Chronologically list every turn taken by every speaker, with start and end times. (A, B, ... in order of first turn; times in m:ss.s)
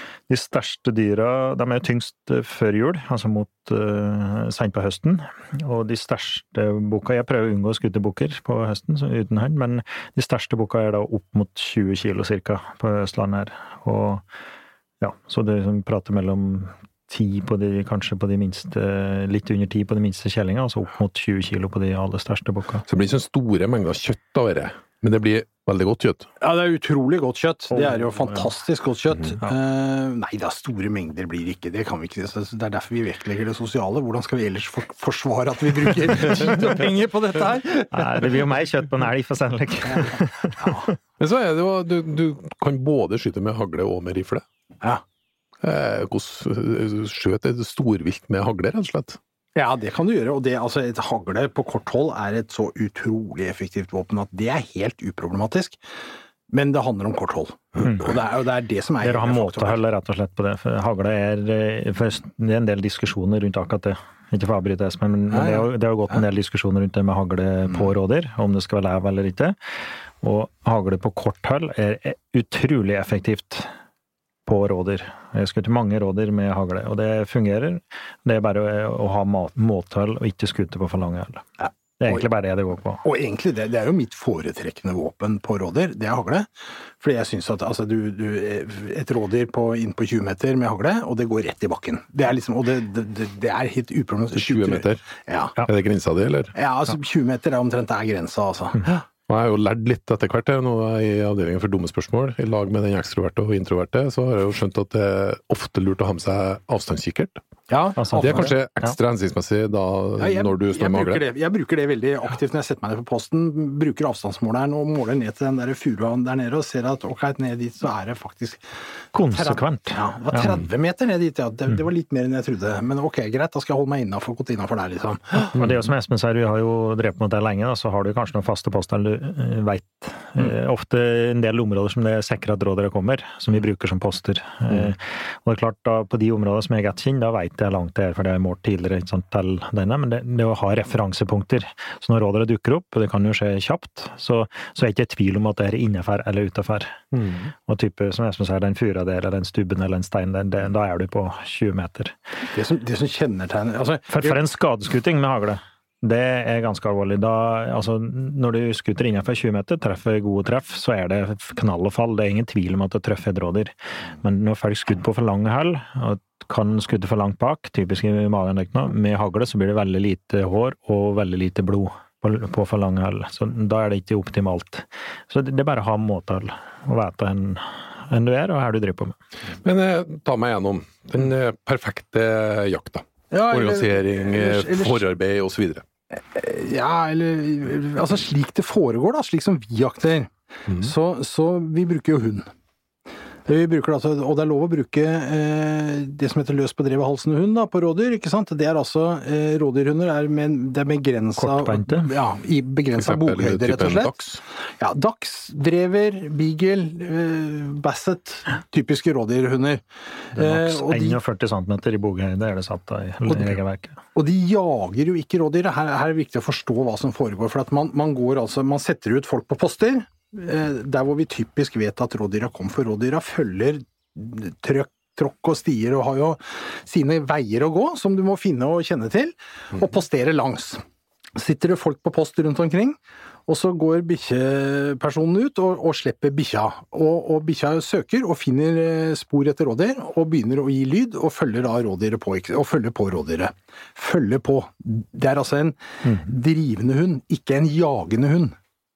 0:00.3-0:14.2 A
0:15.0-0:22.8 A
0:22.9-0:26.3 B
0:26.4-0:38.2 C
0:27.7-0:28.5 A
0:37.9-0:41.0 A
0:39.9-0:40.9 C
0:41.2-0:44.4 B
0:45.6-0:49.2 B
0:49.5-0:55.8 C
0:56.5-0:59.8 C
0:59.0-1:09.6 A
1:05.3-1:05.7 C
1:10.2-1:13.7 A
1:14.4-1:21.4 A
1:21.6-1:22.2 C
1:22.0-1:23.0 A
1:23.0-1:35.6 C
1:34.3-1:35.0 B
1:35.6-1:36.5 B
1:36.5-1:39.0 C
1:39.3-1:47.4 B
1:47.7-1:48.5 C
1:48.0-1:49.0 A
1:48.2-1:51.2 B
1:50.2-1:58.6 C
1:59.1-2:00.5 A
1:59.3-2:05.5 C
2:05.5-2:27.0 A
2:27.1-2:27.4 B
2:27.6-2:32.1 A
2:32.5-2:34.4 C
2:34.1-2:59.2 A
2:59.6-3:05.8 B
3:03.3-3:05.0 C
3:06.1-3:12.5 C
3:13.4-3:24.1 C
3:21.4-3:22.1 A
3:23.0-3:24.4 B
3:24.8-3:31.2 C
3:30.4-3:34.0 A
3:33.3-3:33.6 C
3:34.1-3:50.8 C
3:51.3-4:08.6 C